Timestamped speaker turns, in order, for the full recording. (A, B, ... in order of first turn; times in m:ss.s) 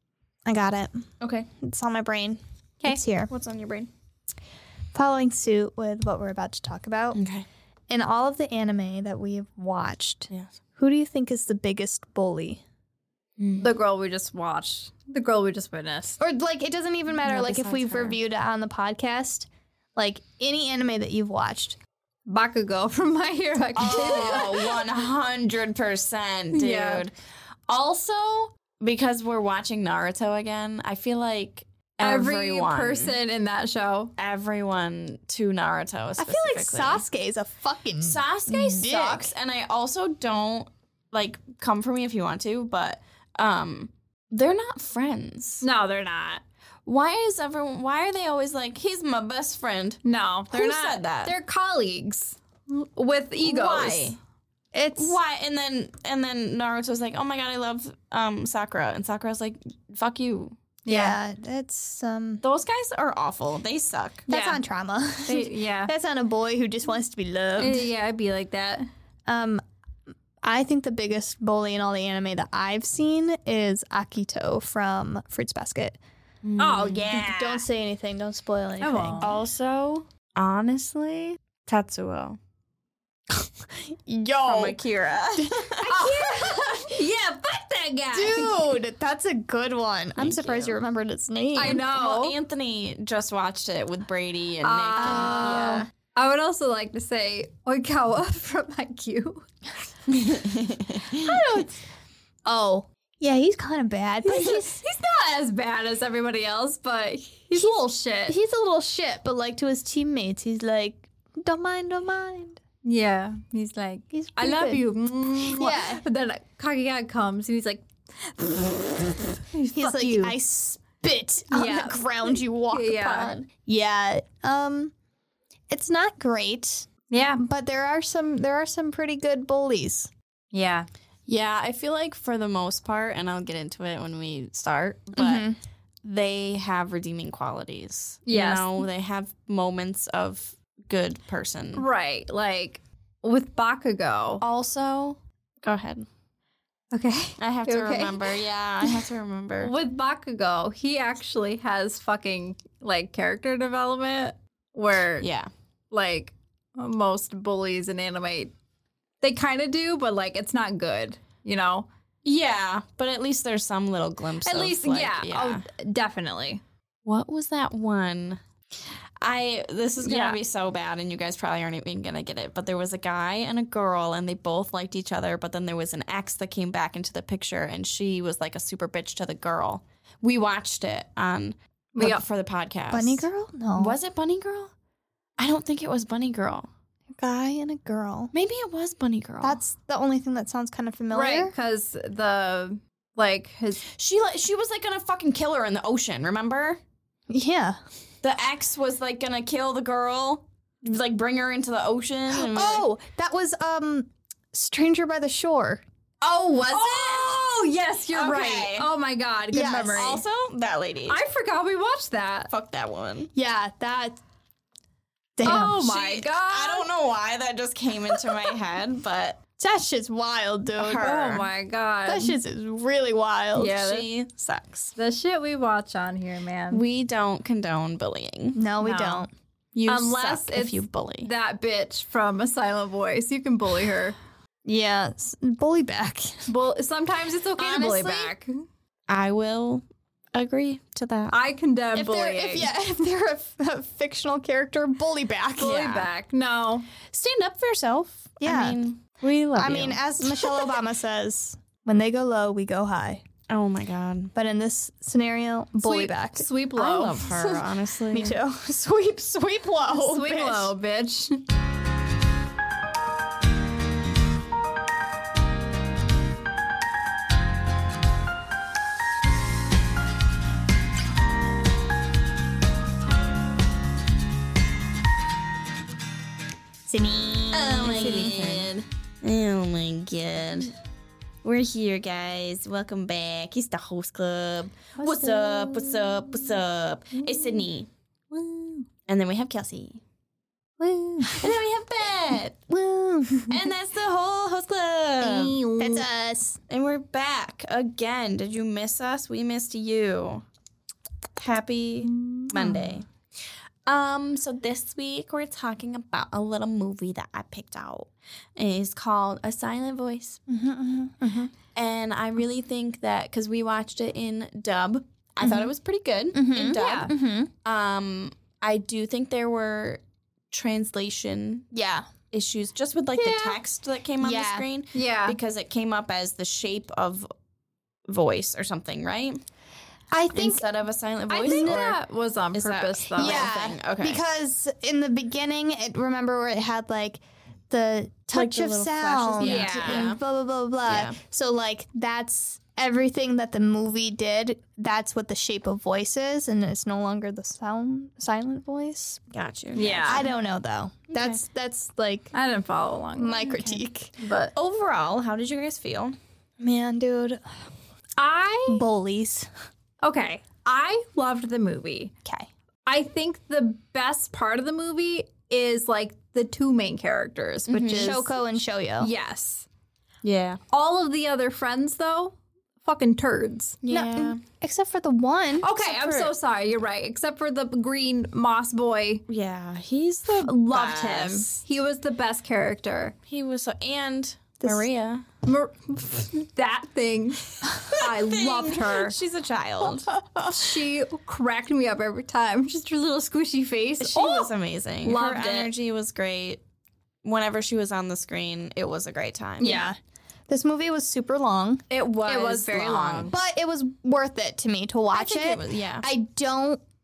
0:00.4-0:01.0 A
0:01.2-0:01.5 B
0:01.6-0:03.3 A
0:03.3-0:03.9 B
0:04.9-0:07.2 A
0:07.1-0:07.4 B
0:07.9-0:12.6 A
0:13.4-0:13.7 B
0:13.6-0:16.2 C
0:16.2-0:21.8 A
0:17.2-0:18.2 B
0:22.3-0:24.8 C
0:23.7-0:27.1 B
0:23.8-0:24.6 A
0:26.5-0:27.0 C
0:27.7-0:33.1 B
0:32.0-0:34.1 C
0:34.2-0:37.0 B
0:36.2-0:39.3 A
0:38.0-0:45.6 B
0:45.6-0:46.4 C
0:46.8-0:51.3 B
0:50.0-0:54.2 C
0:53.4-0:54.2 B
0:54.7-0:55.2 A
0:55.0-1:00.6 B
1:00.8-1:01.2 C
1:00.8-1:02.4 A
1:02.4-1:04.2 B
1:04.3-1:04.6 C
1:04.3-1:07.8 A
1:05.2-1:05.9 C
1:07.6-1:08.9 C
1:09.3-1:09.6 A
1:10.4-1:16.0 A
1:16.4-1:17.6 B
1:16.6-1:17.1 C
1:17.1-1:19.2 A
1:18.8-1:19.3 C
1:19.2-1:22.4 B
1:23.9-1:24.8 A
1:24.4-1:25.9 B
1:25.4-1:26.9 A
1:25.8-1:28.7 C
1:28.1-1:31.8 A
1:30.2-1:30.8 B
1:31.6-1:32.3 C
1:31.6-1:35.9 B
1:34.6-1:39.5 C
1:35.0-1:35.8 A
1:40.1-1:41.4 B
1:41.1-1:41.8 A
1:42.4-1:44.8 A
1:44.2-1:48.3 C
1:48.3-1:52.6 A
1:52.8-2:00.3 C
1:54.1-1:56.0 A
1:59.7-2:04.9 A
2:01.5-2:03.3 C
2:05.7-2:10.1 A
2:07.1-2:07.4 C
2:10.5-2:10.9 C
2:11.3-2:15.4 B
2:15.2-2:15.6 A
2:16.0-2:21.8 B
2:18.3-2:18.7 C
2:21.8-2:24.4 C
2:24.4-2:26.1 B
2:26.9-2:29.0 C
2:27.4-2:29.7 B
2:29.6-2:35.3 C
2:35.2-2:35.5 B
2:35.9-2:38.5 C
2:39.2-2:41.9 C
2:42.2-2:45.6 B
2:44.4-2:46.6 C
2:47.0-2:48.4 B
2:49.2-3:03.2 B
2:50.0-2:50.4 C
3:02.0-3:02.2 C
3:02.9-3:04.0 A
3:03.8-3:04.7 B
3:05.4-3:06.7 B
3:07.2-3:08.3 A
3:08.3-3:09.6 B
3:09.4-3:11.5 A
3:11.1-3:13.9 C
3:13.9-3:16.8 B
3:17.3-3:17.8 A
3:18.2-3:22.9 B
3:22.3-3:25.8 A
3:26.2-3:27.5 B
3:26.7-3:30.2 C
3:28.1-3:28.9 B
3:29.5-3:30.2 A
3:29.9-3:31.2 B
3:31.1-3:32.5 C
3:32.5-3:33.3 B
3:33.3-3:34.2 A
3:35.4-3:35.8 A
3:35.4-3:36.9 C
3:35.4-3:39.4 B
3:39.6-3:41.1 A
3:40.8-3:41.5 B
3:41.0-3:42.4 C
3:42.0-3:43.8 A
3:43.6-3:44.1 C
3:43.7-3:44.9 B
3:45.0-3:46.8 C
3:46.7-3:48.6 B
3:48.5-3:49.3 A
3:48.8-3:49.2 C
3:49.7-3:51.3 B
3:49.9-3:54.2 C
3:54.6-3:56.5 A
3:56.5-3:58.5 C
3:57.6-3:58.3 A
3:59.1-3:59.8 B
4:00.3-4:01.4 B
4:01.3-4:02.7 C
4:01.9-4:05.8 A
4:05.6-4:06.9 C
4:05.6-4:06.1 B
4:07.0-4:10.7 B
4:08.4-4:08.8 A
4:09.6-4:13.2 A
4:13.5-4:14.3 B
4:14.3-4:16.4 A
4:15.8-4:17.6 C
4:16.8-4:18.4 B
4:18.1-4:20.7 A
4:19.9-4:21.4 C
4:36.9-4:38.4 A
4:37.5-4:40.7 B
4:37.8-4:38.7 C
4:41.4-4:47.9 B
4:45.0-4:46.6 C
4:47.1-4:47.7 C
4:48.3-4:48.8 C
4:49.1-4:50.0 B
4:50.8-4:51.5 C
4:51.3-4:52.6 B
4:52.7-4:53.5 A
4:53.5-4:55.6 B
4:55.2-4:56.0 C
4:55.8-4:56.6 A
4:56.7-5:00.4 B
5:01.4-5:03.0 B
5:02.1-5:02.8 C
5:03.8-5:10.4 B
5:10.5-5:11.5 A
5:11.7-5:17.1 B
5:15.4-5:15.7 A
5:16.3-5:17.5 A
5:16.7-5:17.1 C
5:17.6-5:21.7 B
5:21.7-5:22.0 A
5:22.3-5:27.3 B
5:23.2-5:23.6 C
5:24.2-5:24.6 A
5:24.9-5:25.4 C
5:28.1-5:29.4 B
5:30.1-5:30.6 A
5:30.3-5:32.0 B
5:31.3-5:33.5 C
5:31.4-5:31.8 A
5:32.5-5:34.2 B
5:33.2-5:49.2 A
5:38.3-5:40.2 B
5:39.4-5:40.1 C
5:40.8-5:41.2 B
5:49.3-5:50.3 B
5:49.7-5:50.2 C
5:50.0-5:52.3 A
5:51.1-5:51.4 B
5:52.3-5:53.4 C
5:53.2-5:54.1 A
5:53.4-5:53.8 B
5:54.2-5:54.5 C
5:54.5-5:56.2 B
5:56.6-5:57.5 A
5:58.2-5:58.8 C
5:58.7-5:59.5 A
6:00.0-6:02.1 C
6:02.8-6:08.4 C
6:07.7-6:08.2 B
6:07.9-6:09.1 A
6:09.0-6:09.6 C
6:10.2-6:10.6 B
6:10.7-6:13.8 C
6:13.8-6:14.4 B
6:13.8-6:15.7 A
6:15.6-6:19.2 C
6:15.7-6:16.3 B
6:19.3-6:21.6 B
6:20.4-6:23.1 C
6:23.3-6:25.2 B
6:24.6-6:24.8 A
6:25.4-6:29.2 C
6:27.9-6:30.5 B
6:30.4-6:34.5 C
6:34.0-6:36.6 B
6:35.0-6:35.7 C
6:37.2-6:39.8 B
6:39.6-6:40.0 A
6:39.6-6:39.9 C
6:40.5-6:41.8 A
6:41.9-6:43.3 B
6:42.2-6:43.3 C
6:43.3-6:46.8 A
6:45.1-6:46.1 B